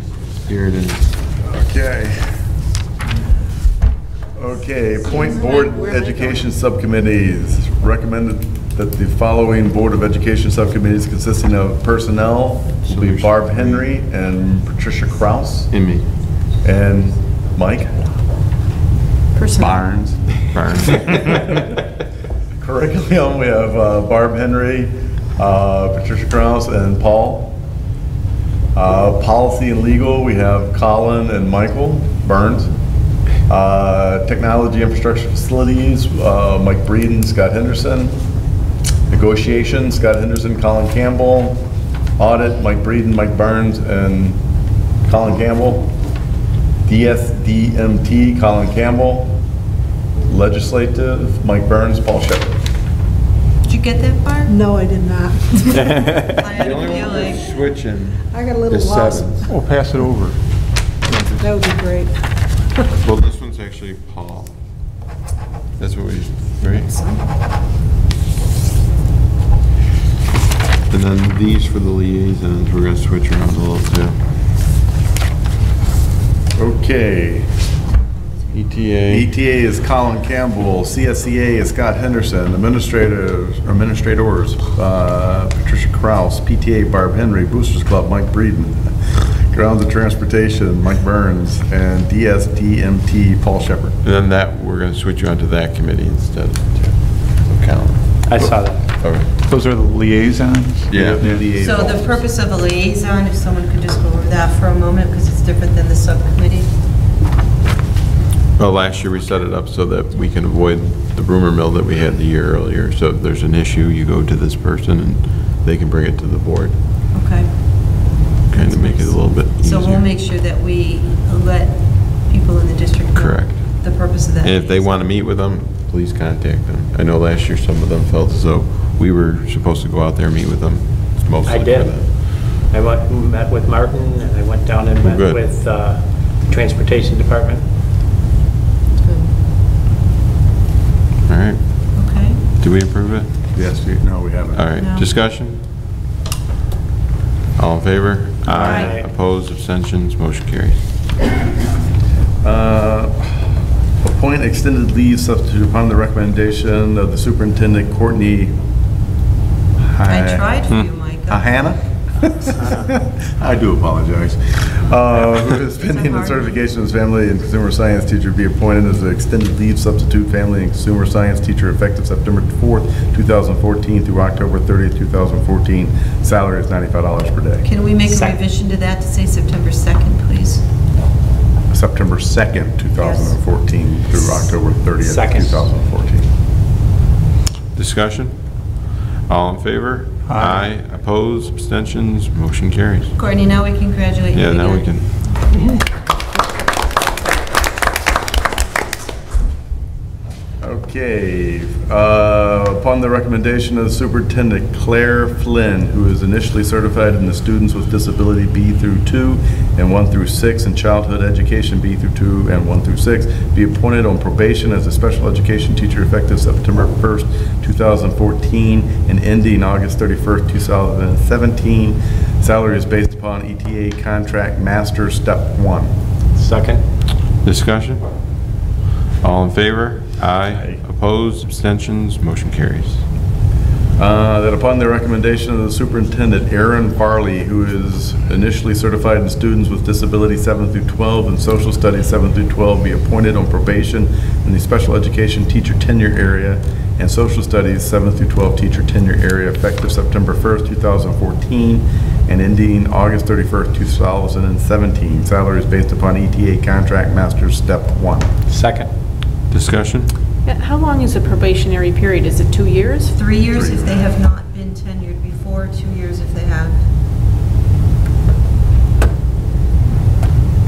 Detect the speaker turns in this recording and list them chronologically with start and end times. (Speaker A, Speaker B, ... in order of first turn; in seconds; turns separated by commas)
Speaker A: 0.5-1.1, Speaker B: 1.5-2.3, Speaker B: 4.4-15.7, Speaker C: 5.1-5.7, Speaker A: 12.8-13.9, Speaker A: 15.7-16.1, Speaker B: 16.6-18.0, Speaker C: 19.4-19.8, Speaker B: 19.6-20.4, Speaker A: 20.5-21.2, Speaker B: 21.2-21.5, Speaker B: 22.6-27.6, Speaker B: 28.7-32.7, Speaker B: 33.5-38.2, Speaker B: 39.1-41.6, Speaker B: 42.2-44.4, Speaker B: 45.0-46.0, Speaker B: 46.9-49.4, Speaker B: 50.3-52.5, Speaker D: 53.6-54.5, Speaker E: 54.5-55.8, Speaker F: 55.9-56.2, Speaker D: 56.2-57.5, Speaker A: 56.5-59.5, Speaker E: 58.3-59.5, Speaker G: 59.5-60.4, Speaker G: 61.0-61.6, Speaker E: 61.4-62.1, Speaker A: 63.0-64.5, Speaker A: 65.8-66.9, Speaker D: 66.8-67.2, Speaker A: 70.9-74.2, Speaker B: 76.6-77.5, Speaker D: 77.9-78.9, Speaker A: 78.5-79.3, Speaker B: 79.1-94.0, Speaker A: 94.0-98.3, Speaker F: 98.2-98.8, Speaker G: 98.4-101.4, Speaker A: 98.9-99.3, Speaker A: 100.9-101.3, Speaker B: 100.9-102.3, Speaker D: 101.5-106.7, Speaker A: 108.6-116.8, Speaker D: 117.1-125.0, Speaker A: 118.5-120.1, Speaker A: 123.1-123.9, Speaker A: 124.4-132.2, Speaker F: 131.4-137.6, Speaker A: 135.0-135.4, Speaker D: 139.0-139.3, Speaker A: 141.2-142.0, Speaker D: 141.9-142.4, Speaker A: 142.6-143.3, Speaker B: 143.5-144.6, Speaker A: 144.5-145.6, Speaker D: 144.8-145.1, Speaker A: 147.6-150.8, Speaker F: 148.5-149.1, Speaker D: 148.5-148.9, Speaker B: 152.4-153.3, Speaker B: 154.0-158.5, Speaker B: 159.9-160.6, Speaker D: 160.1-161.7, Speaker B: 161.3-177.7, Speaker D: 165.8-166.6, Speaker D: 177.6-180.7, Speaker B: 181.7-186.3, Speaker D: 183.0-183.4, Speaker F: 185.0-185.7, Speaker A: 187.7-188.4, Speaker A: 189.3-193.2, Speaker G: 190.3-190.7, Speaker D: 193.2-194.9, Speaker A: 194.3-195.1, Speaker B: 200.6-225.9, Speaker F: 226.4-226.8, Speaker A: 227.4-228.0, Speaker A: 229.2-233.0, Speaker B: 230.5-230.8, Speaker B: 234.0-258.3, Speaker F: 258.5-258.9, Speaker A: 259.5-260.1, Speaker C: 260.4-263.1, Speaker D: 263.1-266.8, Speaker B: 263.5-264.1